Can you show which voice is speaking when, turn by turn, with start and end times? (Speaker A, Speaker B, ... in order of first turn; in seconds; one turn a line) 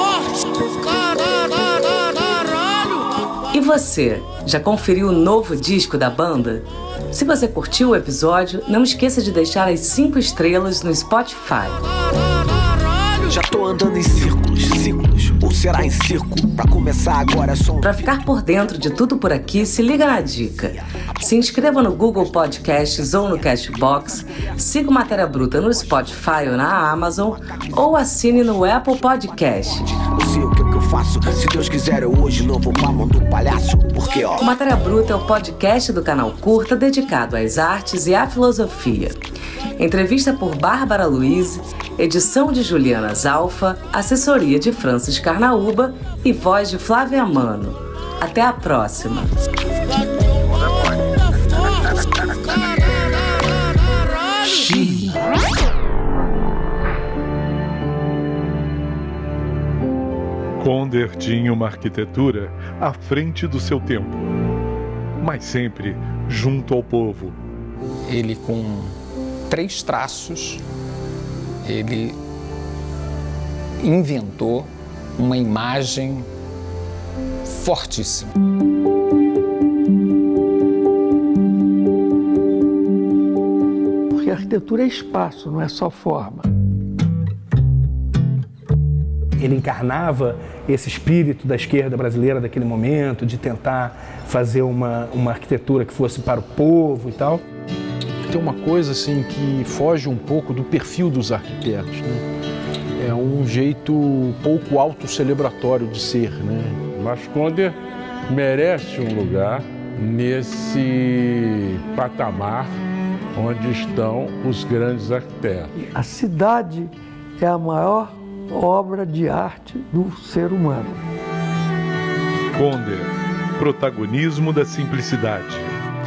Speaker A: 3.5-11.8
Speaker B: 13.2-18.1
Speaker A: 17.8-29.9
Speaker B: 29.9-34.4
Speaker A: 34.4-39.2
Speaker A: 39.8-49.3
Speaker C: 60.6-64.3
Speaker C: 65.2-67.4
Speaker D: 68.1-69.0
Speaker D: 69.5-70.6
Speaker D: 71.6-72.2
Speaker D: 73.8-76.3
Speaker D: 77.5-78.3
Speaker E: 84.1-86.5
Speaker F: 89.4-97.4
Speaker G: 98.3-102.2
Speaker G: 103.0-106.9
Speaker H: 107.0-112.7
Speaker H: 113.4-115.7
Speaker E: 115.8-121.0
Speaker C: 122.5-125.7